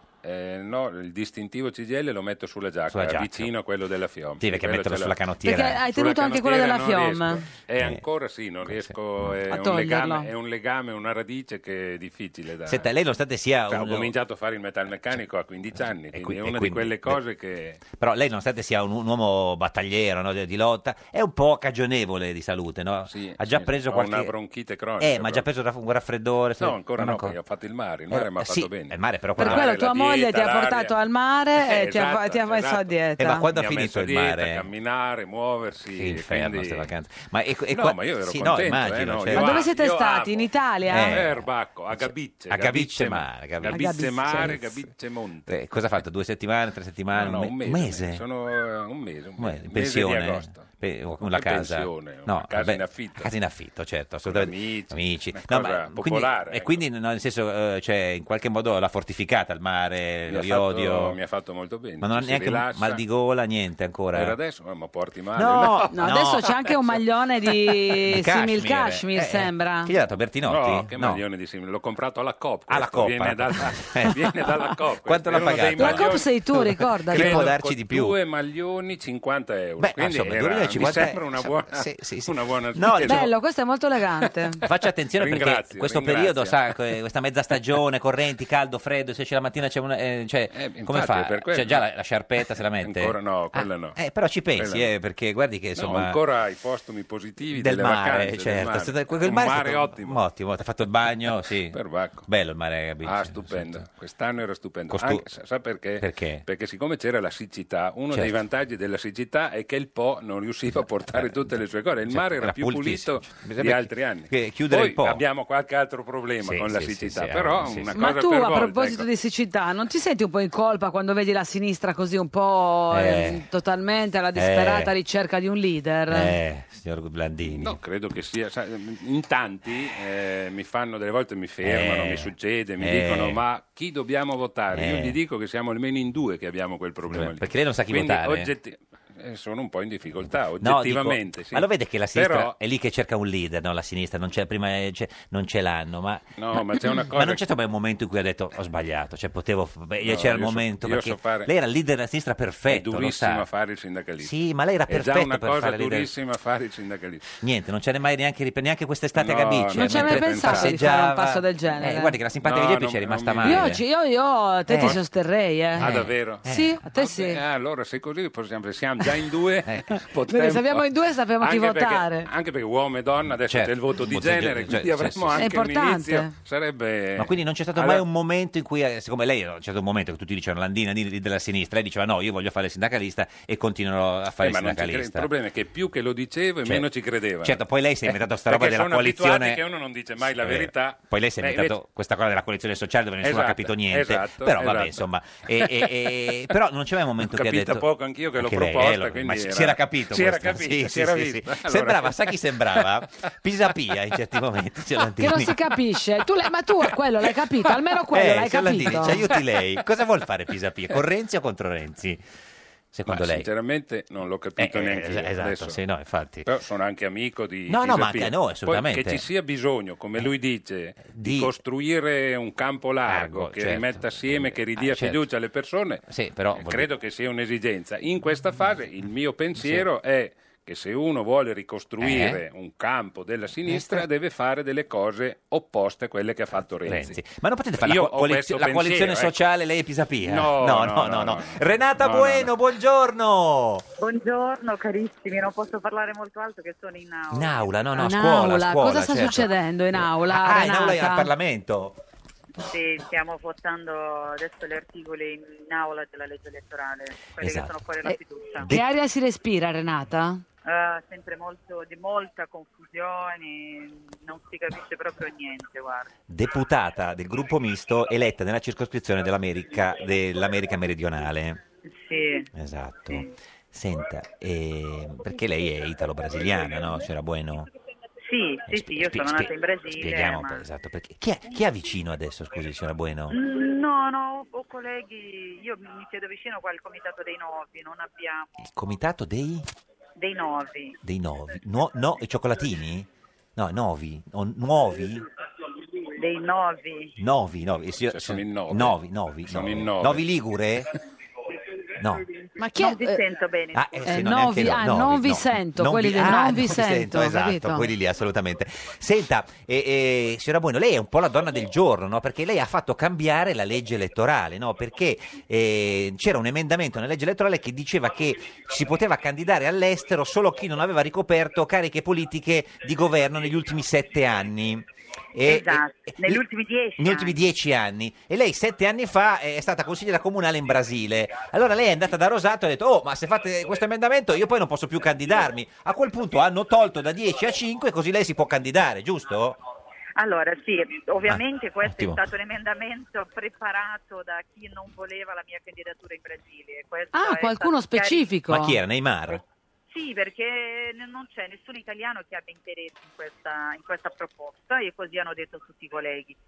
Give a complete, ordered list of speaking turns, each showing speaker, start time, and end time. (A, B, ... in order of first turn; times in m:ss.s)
0:00.2-0:05.2 A
0:02.9-0:03.5 B
0:04.4-0:05.8 B
0:05.4-0:07.4 C
0:05.8-0:12.9 A
0:08.6-0:09.4 B
0:09.5-0:10.3 C
0:12.7-0:14.1 B
0:13.7-0:17.8 A
0:16.1-0:17.2 B
0:17.9-0:24.3 B
0:23.1-0:25.4 A
0:25.0-0:27.4 B
0:26.6-0:30.9 A
0:28.1-0:29.7 B
0:29.4-0:33.4 C
0:31.6-0:36.9 A
0:33.2-0:34.6 B
0:35.9-0:39.7 B
0:37.7-0:40.5 A
0:39.3-0:41.2 C
0:40.9-0:44.6 B
0:41.0-0:45.5 A
0:43.7-0:44.6 C
0:45.5-0:48.2 B
0:47.1-0:50.7 A
0:49.4-1:01.2 B
0:51.2-0:53.3 A
0:54.2-0:56.8 A
1:00.3-1:03.0 A
1:02.0-1:04.4 B
1:04.1-1:06.7 A
1:05.4-1:06.5 B
1:05.9-1:09.9 C
1:08.0-1:11.2 B
1:10.5-1:16.4 A
1:12.7-1:16.1 B
1:15.8-1:17.4 C
1:17.1-1:23.3 A
1:17.1-1:18.2 B
1:19.8-1:23.2 B
1:23.0-1:24.6 C
1:24.6-1:36.2 B
1:25.2-1:26.6 A
1:30.5-1:31.8 A
1:32.8-1:34.0 A
1:34.6-1:34.9 A
1:35.8-1:40.2 A
1:37.6-1:43.8 B
1:41.7-1:42.3 A
1:43.0-1:59.1 A
1:44.9-1:45.2 B
1:46.0-1:46.4 B
1:50.7-1:55.2 B
1:56.4-1:57.9 B
1:57.9-2:06.3 C
2:02.9-2:03.4 B
2:04.4-2:04.9 B
2:06.1-2:07.8 B
2:07.5-2:22.6 A
2:11.6-2:13.4 B
2:14.7-2:15.2 B
2:17.1-2:18.5 B
2:20.6-2:33.4 B
2:26.4-2:27.4 A
2:30.0-2:31.5 A
2:32.7-2:34.3 A
2:34.2-2:36.1 B
2:34.9-2:37.2 A
2:37.4-2:43.8 B
2:39.1-2:40.8 A
2:39.7-2:42.1 C
2:42.4-2:43.8 A
2:43.4-2:47.4 C
2:44.7-2:45.0 B
2:45.8-2:50.9 A
2:45.8-2:46.8 B
2:50.3-2:52.3 C
2:51.4-2:58.0 A
2:53.5-2:55.4 B
2:55.4-2:56.3 C
2:57.2-3:05.3 B
3:04.4-3:11.8 A
3:07.4-3:09.6 B
3:10.2-3:17.9 B
3:13.2-3:15.0 A
3:15.6-3:16.2 A
3:17.2-3:22.8 A
3:18.4-3:25.6 B
3:25.2-3:29.2 C
3:28.1-3:32.2 B
3:32.9-3:33.5 B
3:33.1-3:35.8 A
3:34.6-3:36.5 B
3:36.4-3:57.2 A
3:37.7-3:39.2 B
3:41.0-3:41.5 B
3:43.1-3:45.2 B
3:46.1-3:46.9 B
3:49.6-3:49.9 B
3:52.0-3:52.4 B
3:53.7-3:54.1 B
3:56.9-4:03.8 B
3:57.8-3:59.4 A
4:00.2-4:02.5 A
4:04.0-4:07.7 D
4:07.3-4:12.0 B
4:08.0-4:11.3 C
4:12.6-4:18.7 D
4:17.4-4:17.8 B
4:18.1-4:20.4 C
4:20.6-4:26.1 D
4:26.3-4:31.6 B
4:31.8-4:32.5 D
4:32.5-4:37.7 B
4:38.2-4:40.6 D
4:38.7-4:43.4 B
4:43.3-4:48.5 D
4:48.6-4:49.7 B
4:50.2-4:51.0 D
4:51.0-4:55.2 B
4:56.2-4:57.1 D
4:57.2-5:00.9 B
4:58.1-5:00.2 A
5:02.0-5:02.3 B
5:02.6-5:03.3 C
5:02.8-5:03.9 D
5:03.7-5:26.4 B
5:04.0-5:07.9 C
5:25.4-5:27.4 D
5:27.0-5:39.6 B
5:40.2-5:48.3 D
5:41.2-5:42.2 B
5:47.1-5:48.8 C
5:48.5-5:49.4 B
5:49.9-5:56.4 D